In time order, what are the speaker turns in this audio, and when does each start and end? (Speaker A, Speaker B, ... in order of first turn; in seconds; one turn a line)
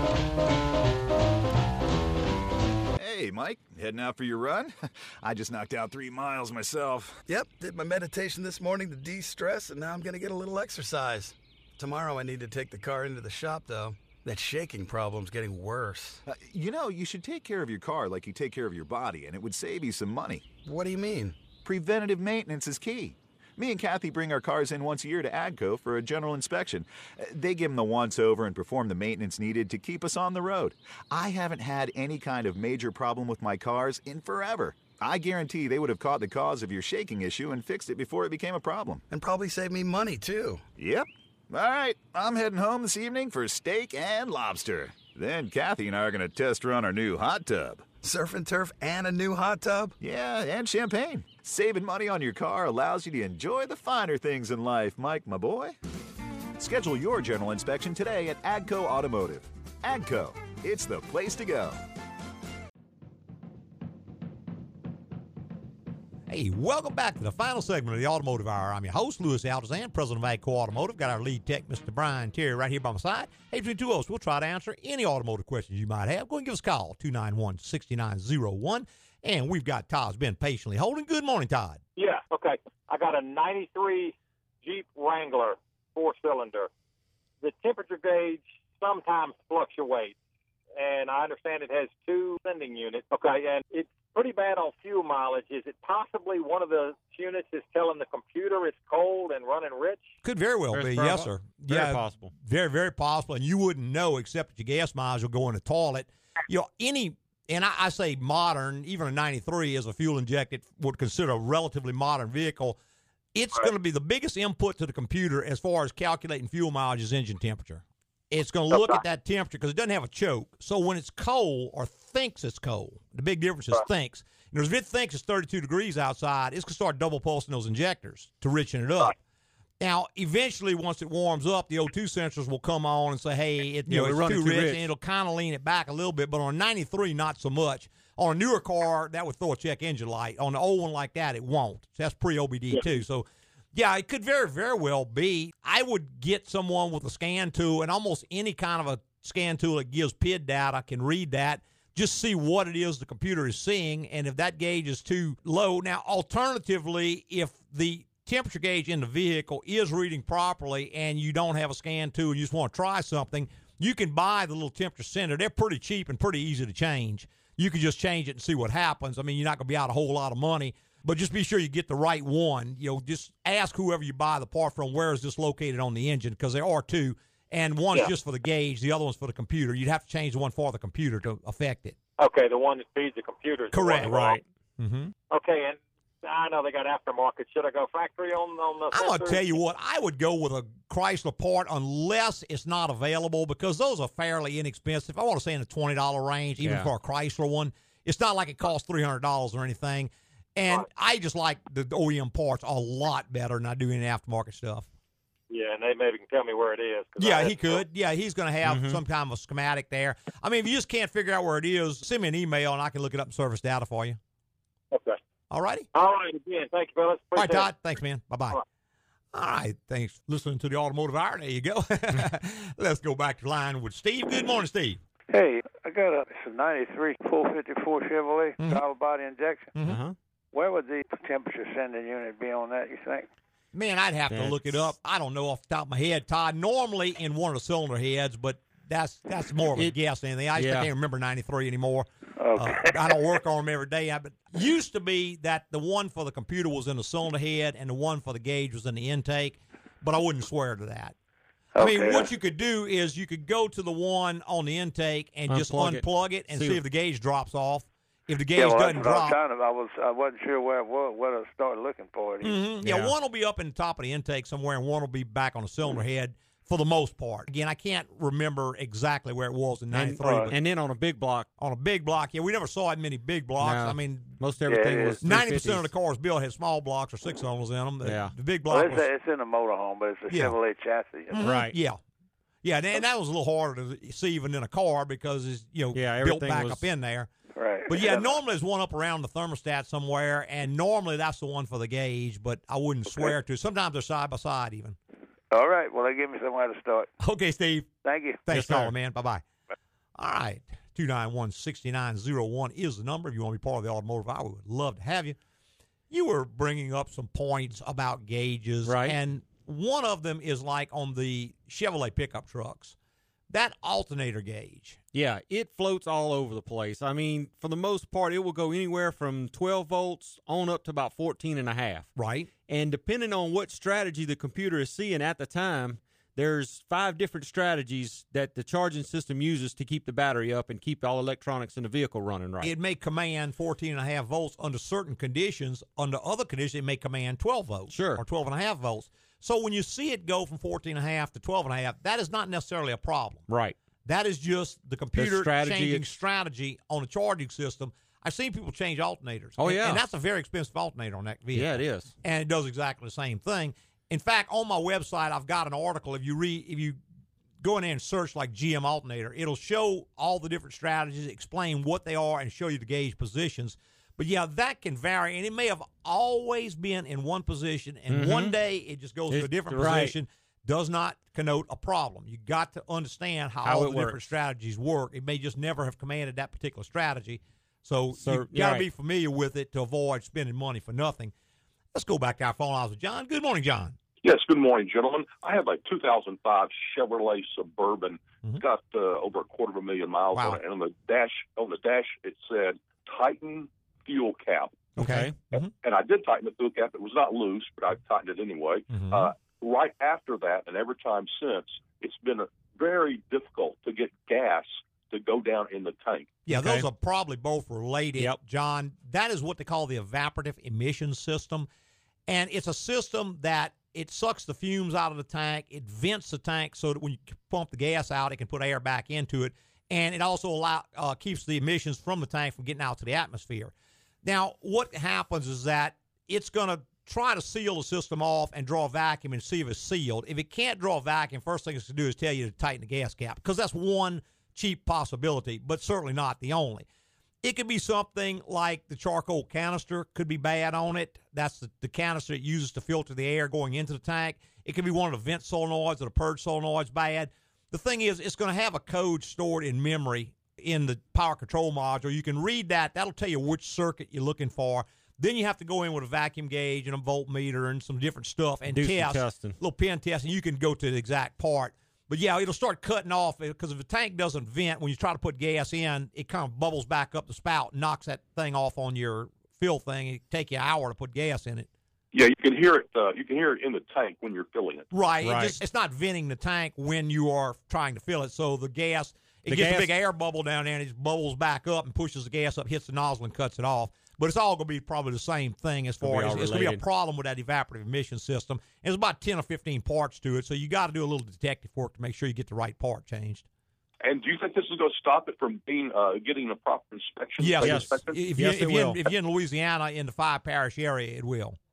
Speaker A: 3.0-7.2
Speaker B: 7.3-16.2
Speaker A: 16.3-20.4
Speaker B: 20.6-21.4
Speaker A: 21.6-39.0
Speaker B: 39.1-40.6
Speaker A: 40.8-47.9
Speaker B: 48.0-49.9
Speaker A: 50.0-55.7
Speaker A: 56.6-61.8
Speaker C: 66.3-81.8
Speaker D: 82.0-86.7
Speaker D: 87.4-90.1
Speaker D: 90.8-100.0
Speaker C: 100.2-112.8
Speaker E: 100.7-102.3
Speaker C: 113.3-129.1
Speaker C: 129.8-181.9
Speaker E: 133.9-134.9
Speaker D: 182.2-184.4
Speaker C: 183.7-185.1
Speaker E: 184.0-184.4
Speaker D: 185.3-189.4
Speaker C: 188.9-204.9
Speaker E: 196.6-196.9
Speaker D: 205.5-207.8
Speaker C: 207.2-214.2
Speaker E: 208.6-209.0
Speaker D: 214.9-215.2
Speaker C: 215.5-215.9
Speaker D: 215.9-217.7
Speaker C: 217.4-218.6
Speaker C: 219.3-225.0
Speaker F: 225.3-229.7
Speaker C: 229.7-230.0
Speaker E: 229.8-230.1
Speaker F: 230.5-233.3
Speaker C: 233.7-251.1
Speaker E: 234.3-234.8
Speaker E: 240.6-240.9
Speaker F: 242.4-243.2
Speaker F: 251.8-252.3
Speaker C: 251.8-259.4
Speaker E: 255.5-256.8
Speaker F: 258.6-262.6
Speaker C: 262.4-270.6
Speaker E: 262.8-263.1
Speaker E: 269.9-271.5
Speaker F: 270.2-270.5
Speaker C: 271.6-274.4
Speaker E: 273.6-275.9
Speaker F: 274.6-275.2
Speaker C: 275.2-279.1
Speaker E: 278.0-278.3
Speaker F: 278.7-281.5
Speaker C: 280.3-280.6
Speaker C: 281.3-282.0
Speaker E: 281.4-281.8
Speaker C: 282.6-287.3
Speaker E: 285.9-286.9
Speaker F: 287.6-288.4
Speaker C: 287.9-295.0
Speaker F: 295.5-297.1
Speaker C: 297.2-297.9
Speaker F: 298.0-298.4
Speaker C: 298.4-299.4
Speaker E: 298.5-298.9
Speaker C: 300.2-305.4
Speaker C: 306.1-312.9
Speaker E: 308.8-309.2
Speaker C: 313.5-315.0
Speaker E: 315.1-322.1
Speaker C: 322.1-322.5
Speaker E: 322.7-332.7
Speaker C: 332.6-343.4
Speaker E: 337.9-338.2
Speaker E: 343.5-343.8
Speaker C: 344.1-357.0
Speaker E: 345.1-346.1
Speaker E: 349.6-350.0
Speaker E: 351.5-352.1
Speaker C: 357.6-381.3
Speaker E: 368.1-368.6
Speaker E: 369.3-370.1
Speaker E: 373.6-374.2
Speaker E: 378.1-378.9
Speaker C: 381.9-383.9
Speaker G: 384.2-394.9
Speaker C: 390.3-390.6
Speaker C: 394.9-395.7
Speaker E: 395.0-395.4
Speaker G: 395.5-406.3
Speaker C: 398.9-399.3
Speaker C: 406.5-411.7
Speaker E: 406.5-406.9
Speaker C: 412.3-423.7
Speaker C: 424.2-436.9
Speaker C: 437.4-471.7
Speaker E: 458.7-459.6
Speaker G: 472.1-474.9
Speaker C: 474.9-493.4
Speaker E: 475.2-475.6
Speaker E: 479.5-479.9
Speaker E: 486.0-486.8
Speaker G: 494.0-498.2
Speaker C: 497.4-501.6
Speaker E: 497.6-499.0